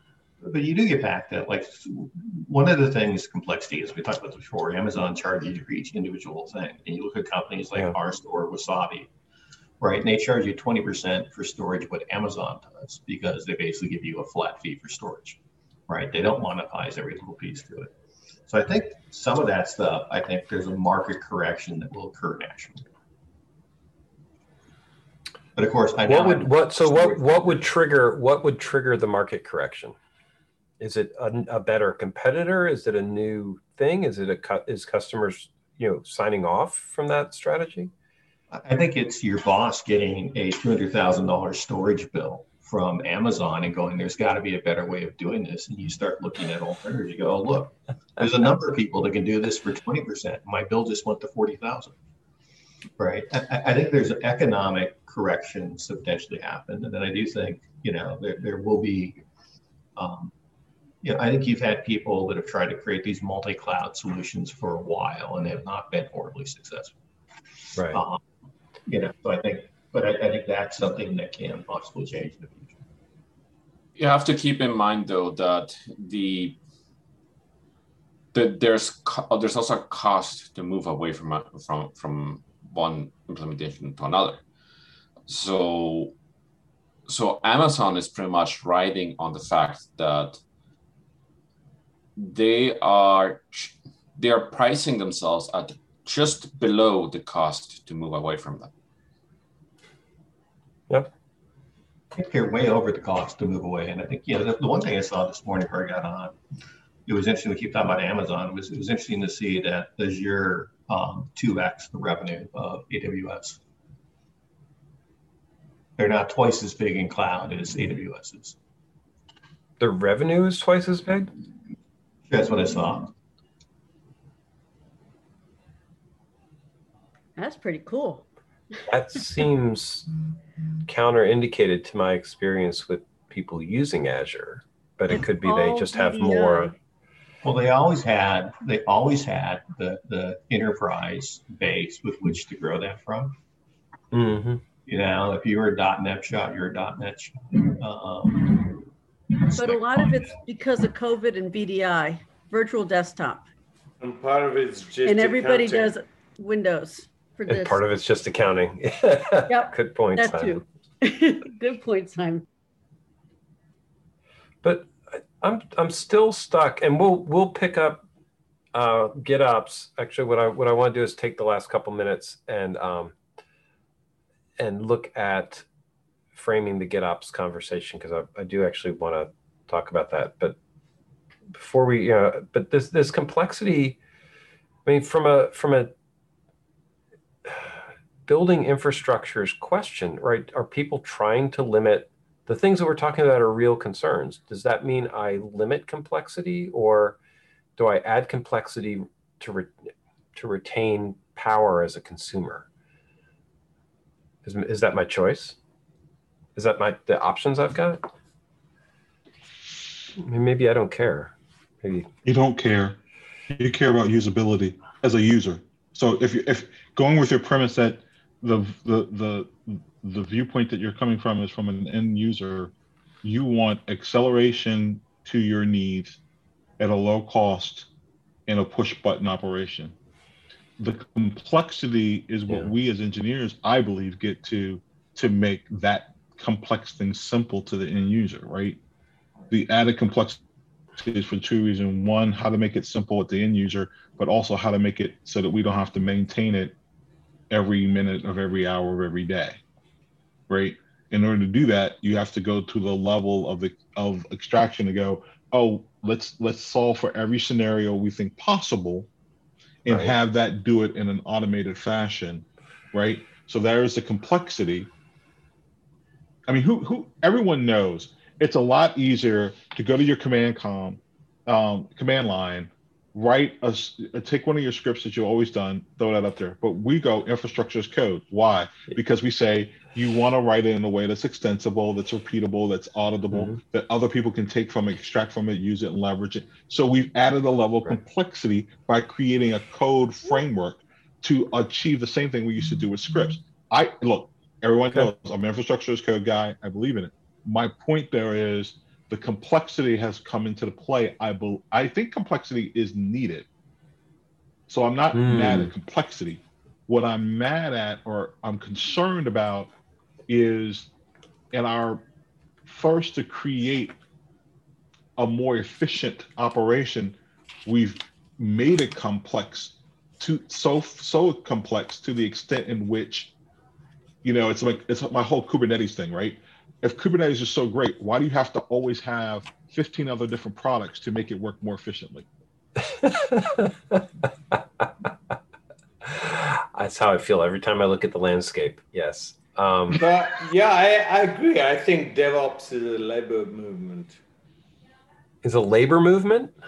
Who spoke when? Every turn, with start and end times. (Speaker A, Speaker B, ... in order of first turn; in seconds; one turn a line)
Speaker A: 0.4-9.1
Speaker A: 9.8-15.4
Speaker A: 15.9-17.9
Speaker A: 18.5-22.9
Speaker A: 25.6-27.6
Speaker B: 26.1-29.9
Speaker B: 30.8-37.9
Speaker A: 38.5-52.0
Speaker A: 53.0-59.2
Speaker A: 60.0-60.3
Speaker A: 61.0-67.0
Speaker B: 67.8-68.0
Speaker A: 67.9-68.2
Speaker A: 68.9-72.8
Speaker C: 74.0-76.6
Speaker C: 78.3-84.4
Speaker C: 85.3-86.1
Speaker C: 87.1-90.4
Speaker C: 92.2-98.7
Speaker A: 102.1-106.3
Speaker A: 107.1-113.6
Speaker A: 116.0-118.6
Speaker B: 119.8-121.3
Speaker A: 122.3-123.1
Speaker D: 127.4-128.2
Speaker B: 128.9-130.1
Speaker B: 130.9-136.7
Speaker D: 135.1-136.7
Speaker A: 137.4-143.4
Speaker B: 144.1-144.6
Speaker A: 144.9-148.8
Speaker A: 149.5-150.3
Speaker D: 149.6-153.5
Speaker E: 154.0-156.0
Speaker D: 155.1-157.8
Speaker B: 157.5-160.6
Speaker D: 159.5-162.5
Speaker B: 164.6-168.1
Speaker B: 168.7-173.2
Speaker B: 174.6-175.7
Speaker B: 176.3-180.6
Speaker B: 181.5-184.0
Speaker B: 184.9-185.9
Speaker B: 188.3-197.2
Speaker B: 197.8-199.7
Speaker B: 200.3-202.7
Speaker B: 204.4-205.6
Speaker B: 206.6-208.1
Speaker B: 210.2-212.1
Speaker F: 212.2-213.0
Speaker F: 213.5-226.2
Speaker F: 226.8-227.9
Speaker F: 228.5-229.9
Speaker F: 230.8-238.8
Speaker F: 239.5-240.4
Speaker F: 241.0-246.8
Speaker F: 247.5-249.6
Speaker F: 250.5-259.1
Speaker F: 259.9-264.9
Speaker B: 259.9-260.1
Speaker F: 266.5-303.5
Speaker B: 283.3-283.6
Speaker F: 304.7-309.7
Speaker B: 305.1-305.7
Speaker F: 310.3-310.9
Speaker F: 311.5-312.0
Speaker F: 312.6-313.9
Speaker F: 315.2-323.3
Speaker F: 324.2-332.3
Speaker B: 332.9-334.6
Speaker B: 336.1-340.0
Speaker E: 339.9-344.2
Speaker B: 345.4-346.5